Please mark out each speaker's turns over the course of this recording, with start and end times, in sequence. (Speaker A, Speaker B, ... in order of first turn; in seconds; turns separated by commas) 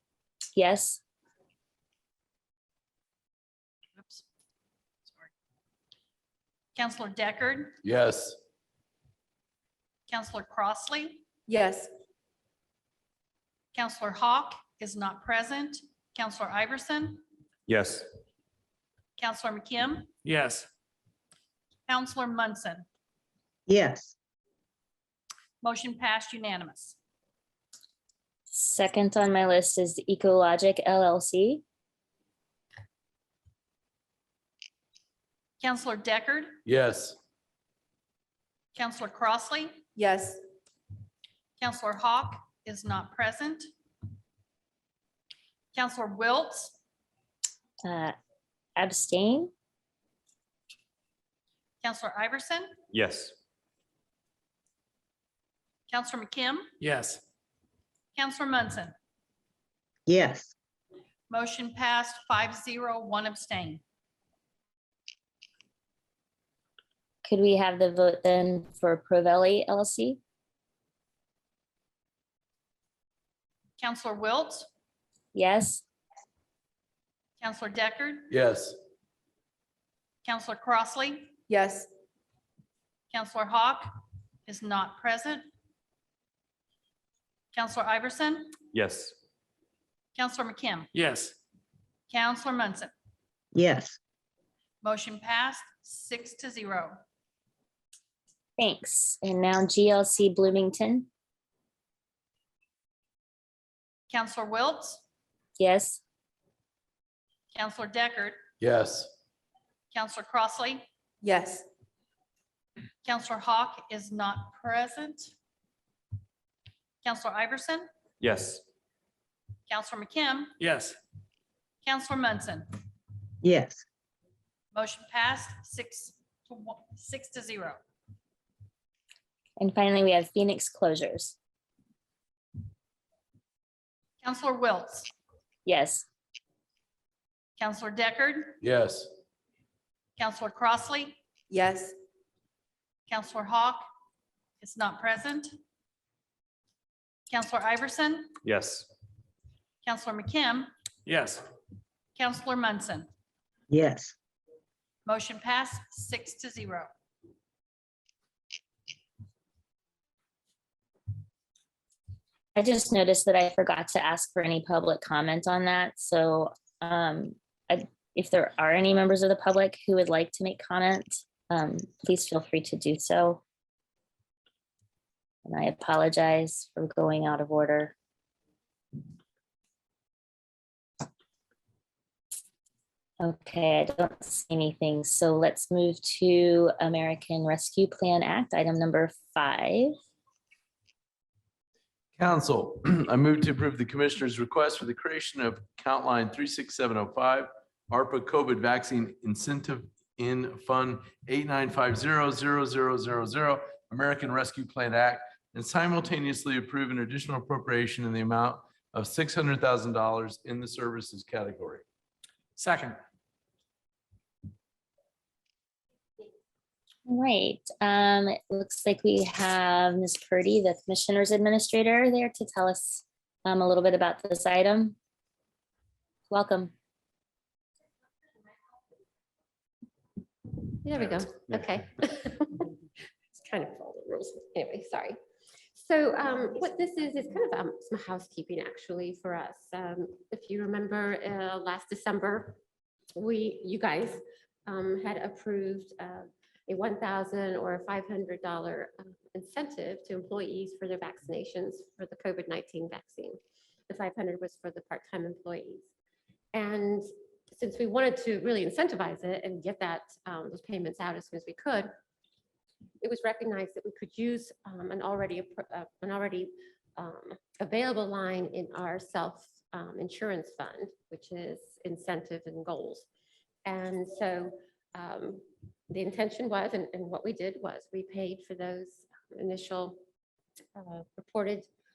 Speaker A: 0.5-1.0, Speaker B: 6.8-7.8, Speaker C: 7.8-8.4, Speaker B: 10.1-11.2, Speaker D: 11.5-11.9, Speaker B: 13.7-17.2, Speaker E: 17.7-18.1, Speaker B: 19.2-20.1, Speaker E: 20.2-20.7, Speaker B: 21.9-22.8, Speaker F: 23.7-24.1, Speaker B: 25.6-27.0, Speaker A: 28.5-31.6, Speaker B: 35.6-36.5, Speaker C: 36.6-37.2, Speaker B: 38.7-39.8, Speaker D: 40.0-40.4, Speaker B: 41.6-43.7, Speaker B: 45.7-46.7, Speaker A: 47.8-48.1, Speaker A: 48.8-49.5, Speaker B: 51.8-52.7, Speaker E: 52.9-53.3, Speaker B: 55.9-56.7, Speaker E: 56.8-57.2, Speaker B: 58.1-58.9, Speaker F: 60.0-60.5, Speaker B: 61.3-63.8, Speaker A: 67.2-70.2, Speaker B: 73.8-74.7, Speaker A: 75.3-75.8, Speaker B: 77.4-78.3, Speaker C: 78.3-78.8, Speaker B: 80.2-81.3, Speaker D: 81.5-81.9, Speaker B: 83.1-83.9, Speaker B: 84.5-85.5, Speaker B: 87.5-88.5, Speaker E: 88.7-89.1, Speaker B: 90.2-90.9, Speaker E: 90.9-91.3, Speaker B: 92.1-92.9, Speaker F: 93.5-94.0, Speaker B: 94.8-97.0, Speaker A: 98.6-101.1, Speaker B: 104.1-105.0, Speaker A: 105.6-106.0, Speaker B: 107.5-108.4, Speaker C: 108.6-109.1, Speaker B: 109.9-110.8, Speaker D: 111.2-111.6, Speaker B: 113.0-115.3, Speaker B: 117.0-117.9, Speaker E: 118.2-118.6, Speaker B: 119.7-120.5, Speaker E: 120.6-121.0, Speaker B: 121.8-122.7, Speaker F: 123.4-123.8, Speaker B: 124.7-127.8, Speaker A: 129.6-131.3, Speaker B: 134.2-135.1, Speaker A: 135.7-136.0, Speaker B: 137.6-138.6, Speaker C: 138.6-139.1, Speaker B: 140.2-141.2, Speaker D: 141.5-141.9, Speaker B: 143.1-143.8, Speaker B: 144.6-145.5, Speaker B: 147.3-148.4, Speaker E: 148.4-148.9, Speaker B: 149.8-150.7, Speaker E: 151.1-151.4, Speaker B: 152.2-153.1, Speaker F: 153.7-154.1, Speaker B: 155.1-156.9, Speaker A: 162.5-173.4, Speaker A: 175.4-177.9, Speaker A: 183.2-189.9, Speaker C: 192.2-211.8, Speaker E: 212.6-213.0, Speaker A: 217.1-224.9, Speaker A: 226.3-226.7, Speaker G: 230.8-232.7, Speaker G: 233.3-235.2, Speaker G: 235.7-242.6, Speaker G: 243.2-253.4, Speaker G: 253.9-255.9, Speaker G: 256.5-261.9, Speaker G: 263.0-273.1, Speaker G: 273.6-280.0, Speaker G: 280.7-281.7